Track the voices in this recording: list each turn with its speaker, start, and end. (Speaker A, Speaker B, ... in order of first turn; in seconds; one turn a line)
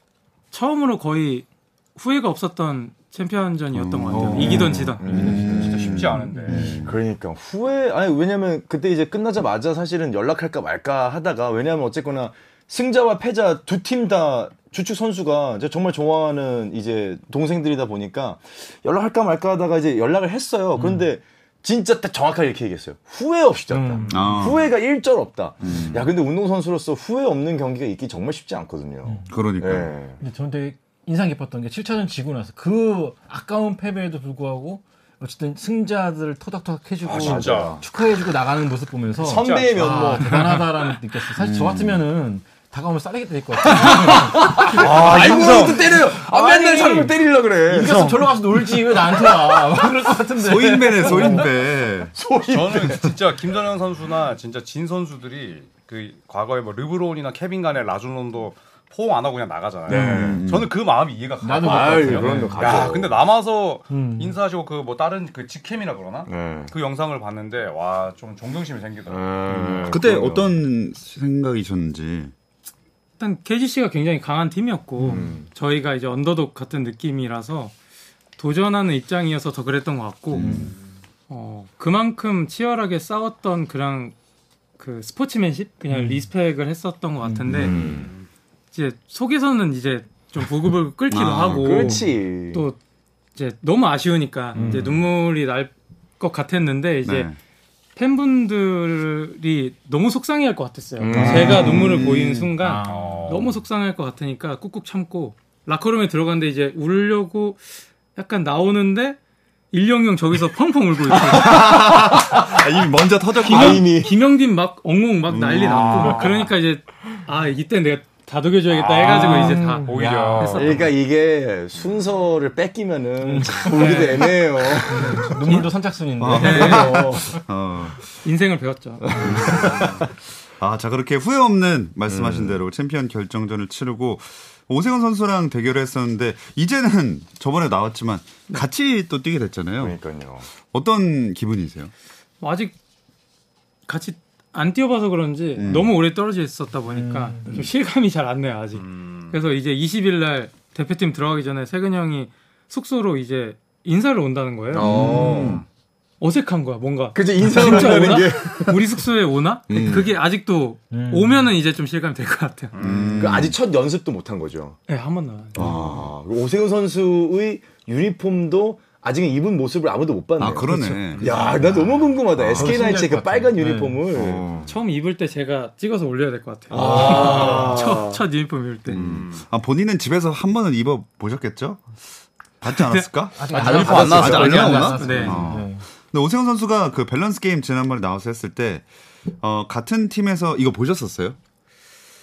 Speaker A: 0.5-5.1
Speaker B: 3.7-7.0
Speaker C: 4.1-6.2
Speaker D: 4.1-6.8
Speaker E: 5.3-6.8
Speaker C: 6.8-30.2
Speaker D: 20.7-21.1
Speaker D: 23.7-24.5
Speaker B: 24.1-24.7
Speaker B: 25.6-26.1
Speaker D: 29.1-29.3
Speaker B: 29.3-29.9
Speaker D: 30.2-51.5
Speaker E: 37.0-37.8
Speaker C: 37.1-37.9
Speaker C: 39.2-40.6
Speaker E: 39.2-40.6
Speaker B: 41.4-42.0
Speaker C: 43.6-48.2
Speaker E: 44.2-46.0
Speaker E: 47.9-48.2
Speaker B: 50.4-52.1
Speaker C: 51.0-51.4
Speaker C: 52.1-53.2
Speaker E: 52.5-70.0
Speaker D: 59.9-60.4
Speaker C: 59.9-60.4
Speaker B: 60.0-60.7
Speaker D: 61.4-62.9
Speaker C: 61.6-63.2
Speaker D: 63.9-64.3
Speaker C: 66.3-66.7
Speaker C: 69.1-70.5
Speaker B: 69.9-72.3
Speaker A: 73.2-77.7
Speaker D: 75.0-75.3
Speaker C: 75.0-75.5
Speaker A: 78.4-80.6
Speaker B: 80.3-80.7
Speaker C: 80.3-80.7
Speaker A: 81.3-84.1
Speaker A: 84.8-87.8
Speaker D: 85.9-86.3
Speaker D: 87.2-87.8
Speaker C: 87.5-88.1
Speaker E: 87.7-88.3
Speaker A: 88.7-92.8
Speaker B: 91.1-92.0
Speaker C: 91.6-92.7
Speaker A: 93.3-97.3
Speaker C: 94.5-95.0
Speaker B: 97.0-97.4
Speaker A: 98.0-109.2
Speaker C: 101.0-102.0
Speaker D: 101.1-101.8
Speaker B: 101.2-102.5
Speaker D: 102.6-103.3
Speaker E: 102.8-103.5
Speaker A: 109.7-111.6
Speaker B: 111.1-113.9
Speaker C: 111.4-112.6
Speaker A: 113.4-120.8
Speaker C: 113.5-114.2
Speaker B: 115.3-116.3
Speaker E: 118.9-120.8
Speaker D: 119.2-120.6
Speaker C: 120.4-125.6
Speaker D: 123.2-124.0
Speaker A: 123.6-124.4
Speaker D: 124.8-127.4
Speaker B: 126.2-128.1
Speaker C: 126.3-127.4
Speaker A: 126.3-127.0
Speaker A: 128.2-129.5
Speaker C: 129.1-130.0
Speaker B: 129.2-130.1
Speaker D: 129.2-129.5
Speaker B: 130.6-140.0
Speaker C: 132.1-132.6
Speaker C: 139.8-140.5
Speaker B: 140.7-141.9
Speaker A: 142.4-142.7
Speaker A: 143.9-155.0
Speaker B: 145.6-145.9
Speaker D: 146.9-147.6
Speaker E: 148.7-149.3
Speaker C: 154.7-155.6
Speaker B: 154.8-155.6
Speaker D: 154.9-155.5
Speaker A: 156.2-162.8
Speaker C: 157.1-158.8
Speaker D: 157.5-158.2
Speaker B: 159.7-160.1
Speaker D: 160.9-161.5
Speaker E: 162.7-163.4
Speaker B: 162.8-163.6
Speaker C: 163.2-164.8
Speaker A: 164.9-165.7
Speaker C: 165.5-174.7
Speaker B: 165.5-166.1
Speaker B: 170.4-171.2
Speaker D: 170.7-174.1
Speaker E: 171.2-171.4
Speaker B: 172.3-172.8
Speaker B: 174.1-174.7
Speaker A: 174.7-179.0
Speaker C: 176.7-178.2
Speaker B: 176.7-177.8
Speaker D: 176.8-177.8
Speaker B: 178.9-181.9
Speaker E: 179.0-179.4
Speaker B: 182.6-188.8
Speaker A: 182.7-183.1
Speaker D: 183.4-185.8
Speaker C: 183.5-185.3
Speaker E: 183.5-185.2
Speaker A: 183.8-185.5
Speaker B: 189.4-191.4